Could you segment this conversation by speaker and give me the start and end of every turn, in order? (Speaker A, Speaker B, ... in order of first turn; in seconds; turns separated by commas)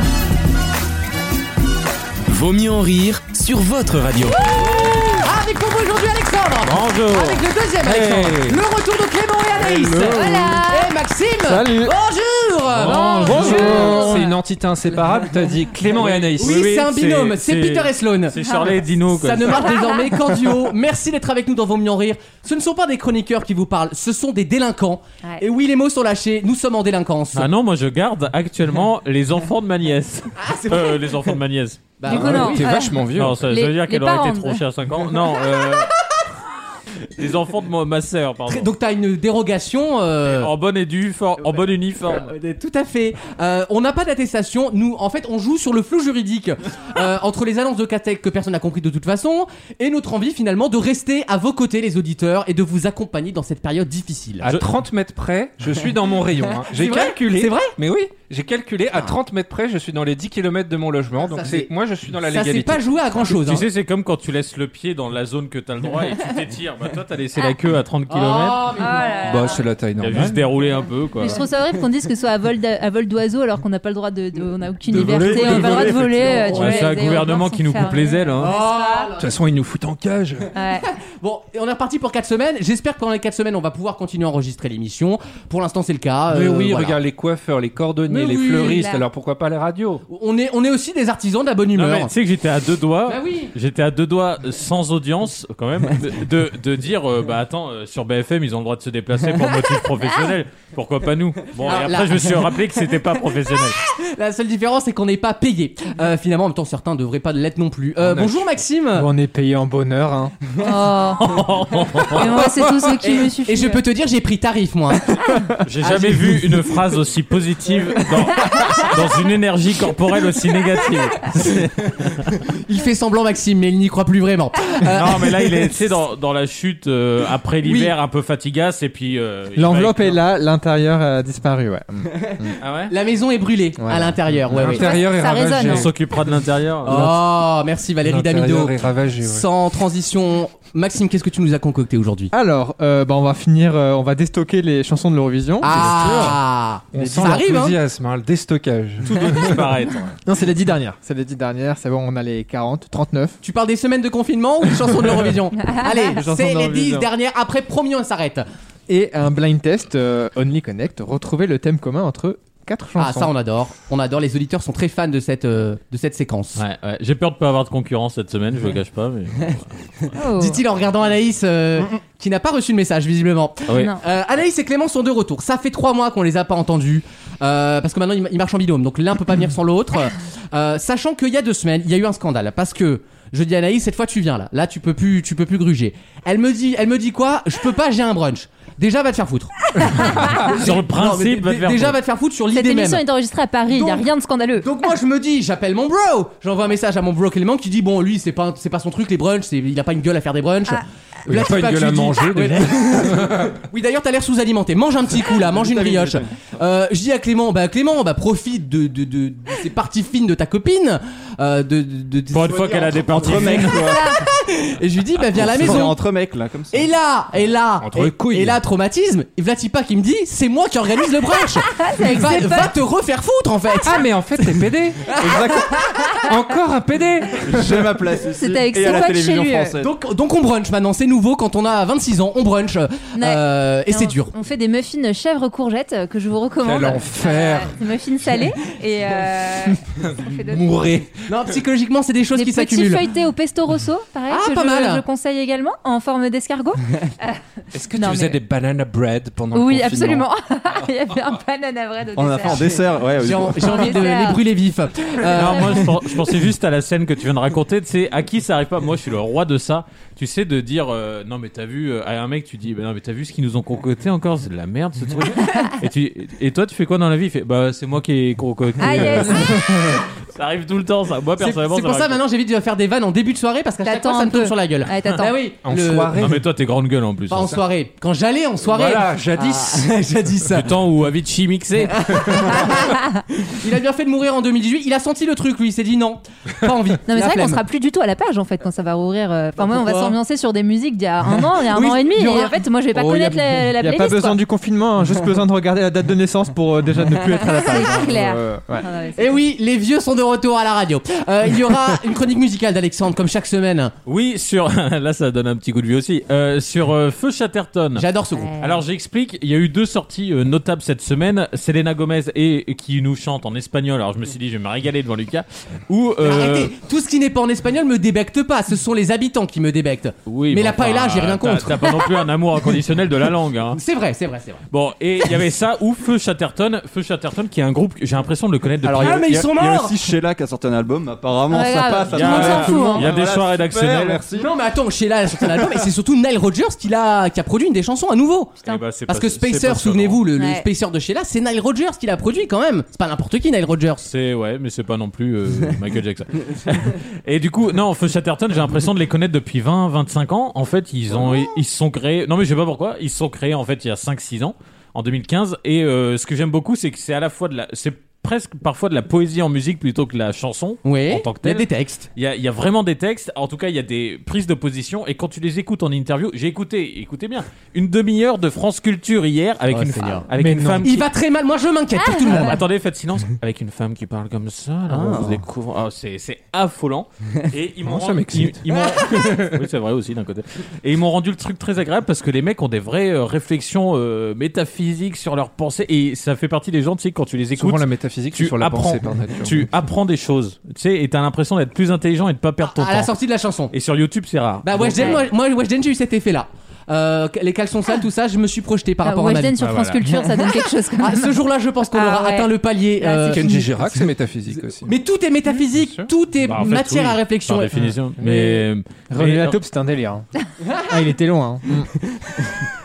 Speaker A: 2.3-4.5, Speaker B: 5.2-14.0, Speaker C: 6.6-7.4, Speaker D: 7.8-8.6, Speaker D: 9.6-10.3, Speaker E: 10.0-10.3, Speaker F: 10.1-10.9, Speaker E: 11.5-11.9, Speaker D: 12.8-16.9, Speaker C: 12.8-13.4, Speaker F: 13.1-14.3, Speaker E: 13.2-14.1, Speaker C: 15.9-19.7, Speaker B: 16.4-18.4, Speaker F: 18.4-18.7, Speaker B: 19.1-27.5, Speaker F: 19.6-20.1, Speaker C: 27.3-32.0, Speaker B: 30.4-31.4, Speaker B: 32.0-32.7, Speaker F: 32.0-34.6, Speaker D: 32.1-33.5, Speaker C: 33.1-35.9, Speaker C: 37.2-38.7, Speaker B: 38.5-40.5, Speaker C: 40.2-42.3, Speaker B: 41.4-54.5, Speaker D: 54.4-62.9, Speaker B: 56.6-57.7, Speaker B: 61.2-61.7, Speaker B: 62.3-63.6, Speaker C: 63.2-68.7, Speaker B: 68.1-69.6, Speaker F: 68.8-69.7, Speaker D: 69.2-70.4, Speaker C: 70.0-71.4, Speaker F: 71.2-79.1, Speaker D: 74.9-76.9, Speaker G: 74.9-76.3, Speaker B: 74.9-76.7, Speaker C: 76.5-78.5, Speaker B: 78.4-79.3, Speaker D: 79.2-80.5, Speaker F: 80.5-80.8, Speaker B: 80.8-87.0, Speaker D: 86.3-90.0, Speaker B: 88.1-88.8, Speaker F: 88.5-89.0, Speaker B: 90.1-92.1, Speaker C: 91.7-103.8, Speaker B: 93.1-93.5, Speaker B: 101.6-103.1, Speaker B: 103.8-109.1, Speaker E: 108.9-110.3, Speaker F: 110.6-111.2, Speaker C: 111.1-112.5, Speaker F: 112.1-113.8, Speaker B: 113.0-115.1, Speaker C: 115.6-122.3, Speaker B: 115.8-116.4, Speaker B: 122.6-125.6, Speaker C: 124.9-130.2, Speaker B: 127.6-127.9, Speaker E: 129.6-132.6, Speaker C: 132.6-132.9, Speaker B: 132.9-134.9, Speaker E: 133.8-134.2, Speaker D: 134.5-135.9, Speaker F: 134.6-135.9, Speaker C: 135.6-137.1, Speaker B: 136.9-142.3, Speaker D: 138.0-139.4, Speaker E: 142.3-146.2, Speaker B: 145.6-147.8, Speaker C: 145.8-146.4, Speaker D: 146.9-149.7, Speaker C: 149.0-150.1, Speaker E: 150.2-153.4, Speaker B: 153.4-158.4, Speaker F: 155.7-156.1, Speaker E: 155.9-157.1, Speaker E: 158.9-163.3, Speaker B: 163.0-166.6, Speaker C: 166.6-170.1, Speaker F: 170.2-170.6, Speaker B: 170.3-193.0, Speaker C: 173.7-173.9, Speaker F: 173.7-174.0, Speaker F: 189.8-190.5, Speaker C: 190.4-192.0, Speaker F: 192.5-194.9, Speaker B: 193.7-212.6, Speaker D: 201.3-203.6, Speaker G: 205.3-206.3, Speaker C: 212.3-214.0, Speaker G: 212.5-214.1, Speaker F: 213.8-214.2, Speaker B: 214.2-216.0, Speaker G: 215.3-216.9, Speaker B: 216.7-224.5, Speaker D: 217.8-218.6, Speaker F: 221.8-222.7, Speaker D: 223.8-225.1, Speaker B: 225.1-225.4, Speaker G: 225.1-225.8, Speaker F: 225.8-226.3, Speaker D: 226.2-227.8, Speaker G: 227.4-229.9, Speaker F: 228.3-229.8, Speaker B: 229.8-234.3, Speaker F: 233.2-240.7, Speaker D: 236.6-237.8, Speaker D: 239.9-241.1, Speaker B: 241.3-243.1, Speaker F: 242.3-248.4, Speaker B: 244.3-245.0, Speaker D: 247.7-250.3, Speaker F: 249.5-252.9, Speaker G: 252.2-254.0, Speaker B: 253.2-256.0, Speaker F: 253.6-254.5, Speaker C: 255.3-272.2, Speaker F: 255.5-255.9, Speaker F: 265.3-265.8, Speaker F: 268.8-269.6, Speaker E: 269.5-270.0, Speaker B: 271.4-276.2, Speaker F: 273.8-275.4, Speaker D: 275.6-276.4, Speaker C: 276.1-277.6, Speaker B: 277.3-280.6, Speaker D: 278.6-279.9, Speaker C: 280.5-282.1, Speaker B: 281.9-287.6, Speaker F: 282.5-283.2, Speaker F: 287.1-294.4, Speaker B: 289.6-290.1, Speaker B: 291.7-292.5, Speaker E: 292.9-298.9, Speaker F: 297.6-299.3, Speaker B: 299.2-303.9, Speaker C: 304.1-308.0, Speaker B: 307.9-308.5, Speaker F: 308.4-308.8, Speaker C: 308.6-316.7, Speaker B: 316.2-321.8, Speaker C: 320.3-323.8, Speaker B: 323.8-324.6, Speaker C: 324.7-329.2, Speaker G: 328.8-334.5, Speaker B: 329.0-329.9, Speaker F: 331.5-333.1, Speaker C: 332.1-334.2, Speaker B: 334.4-344.1, Speaker C: 338.6-340.2, Speaker F: 340.4-340.7, Speaker C: 344.1-371.1, Speaker B: 360.8-362.1, Speaker B: 369.7-370.2, Speaker E: 370.4-370.8, Speaker D: 370.6-370.8, Speaker B: 370.8-372.6, Speaker F: 371.9-372.6, Speaker C: 372.3-393.1, Speaker B: 374.9-375.4, Speaker D: 375.0-375.3, Speaker D: 377.8-379.6, Speaker D: 387.6-389.6, Speaker B: 392.6-393.7, Speaker C: 393.7-395.2, Speaker B: 394.6-407.8, Speaker D: 394.7-395.0, Speaker F: 395.0-395.2, Speaker F: 399.0-401.4, Speaker F: 401.9-403.7, Speaker D: 403.3-404.9, Speaker D: 405.8-406.1, Speaker C: 406.4-409.6, Speaker E: 407.8-408.4, Speaker E: 409.1-410.3, Speaker B: 410.6-410.9, Speaker E: 410.9-411.9